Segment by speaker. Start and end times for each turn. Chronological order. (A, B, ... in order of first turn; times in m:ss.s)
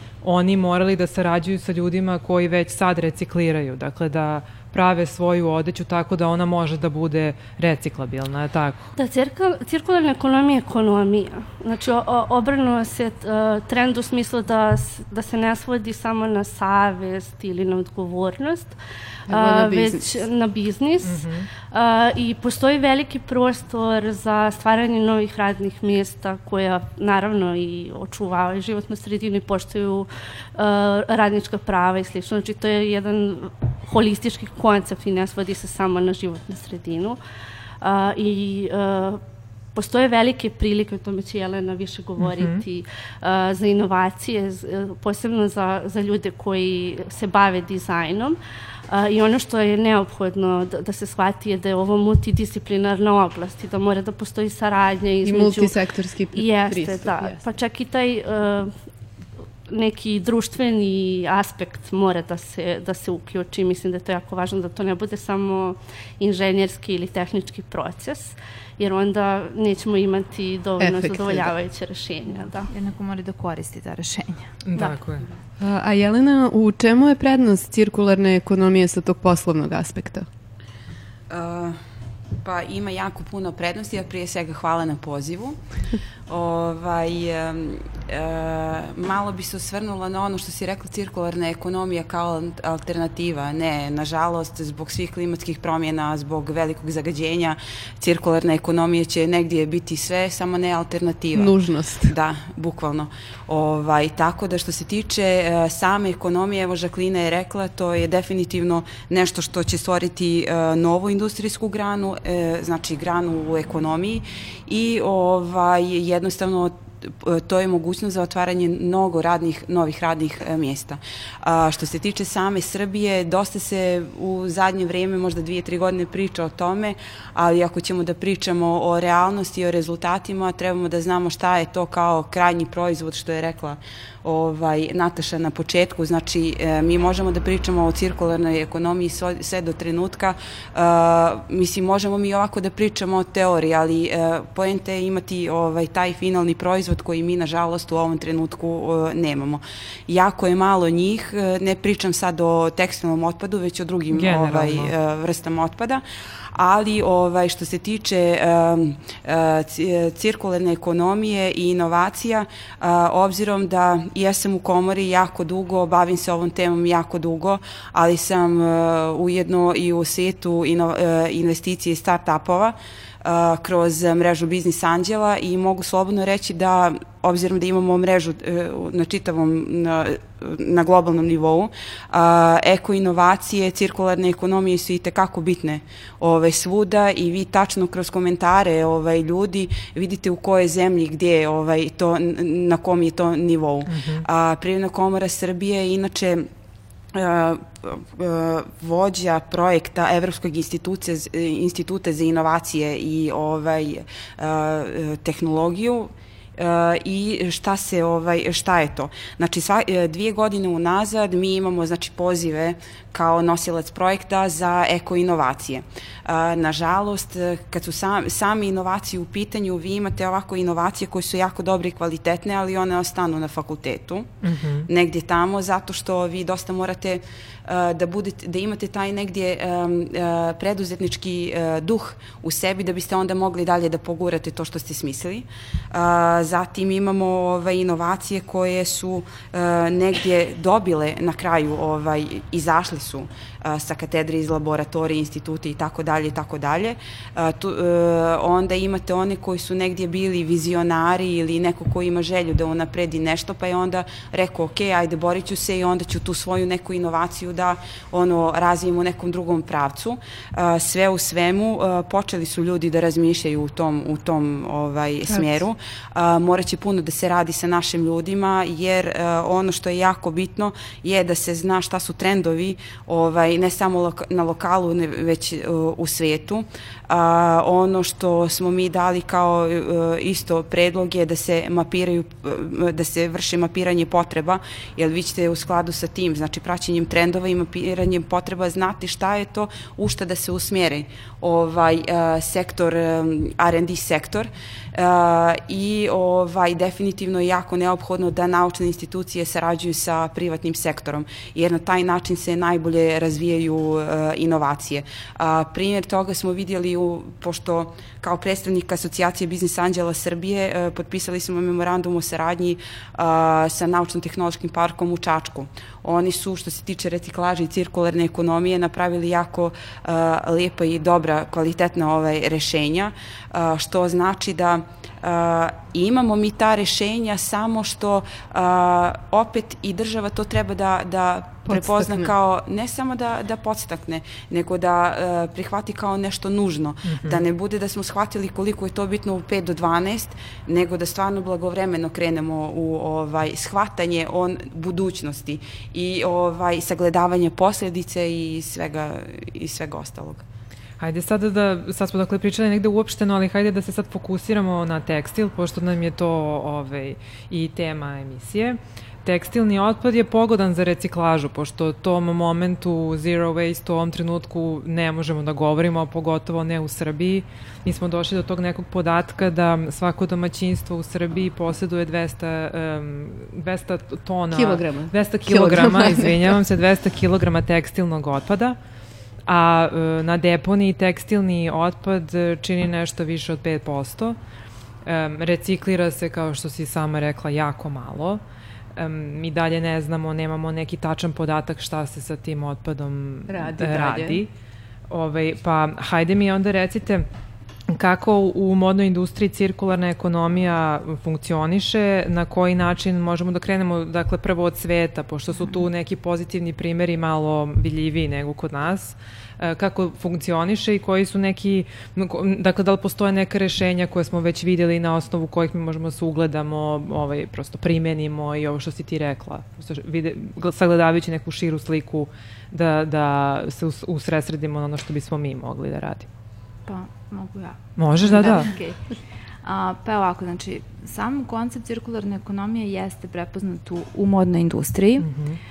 0:00.2-0:08.9 A
0:09.0-0:18.8 B
0:19.3-0:20.2 C
0:19.3-0:37.2 B
0:21.0-0:21.5 A
0:37.8-0:39.2 B
0:39.7-0:48.4 B
0:42.2-0:42.6 A
0:48.9-0:55.8 B
0:55.2-0:57.4 C
0:56.3-0:58.7 B
0:59.7-1:12.7 B
1:10.8-1:11.5 C
1:12.7-1:15.0 D
1:14.7-1:15.2 A
1:15.6-1:20.3 C
1:21.3-1:21.8 E
1:22.4-1:25.6 E
1:26.3-2:36.0 E
1:41.3-1:42.1 C
2:34.1-2:34.9 A
2:36.5-3:16.5 E
3:13.9-3:14.2 A
3:17.1-3:44.3 E
3:44.4-3:44.9 A
3:44.9-5:50.4 E
4:25.3-4:25.6 C
5:31.7-5:32.3 C
5:37.1-5:37.4 A
5:51.0-6:18.8 A
6:14.5-6:16.6 C
6:19.5-6:24.4 A
6:25.0-6:28.4 A
6:29.0-6:34.5 A
6:33.5-6:34.4 C
6:35.1-6:37.2 A
6:37.9-7:06.3 A
7:06.9-7:09.0 D
7:08.0-7:08.7 A
7:09.6-7:15.3 D
7:15.2-7:15.6 A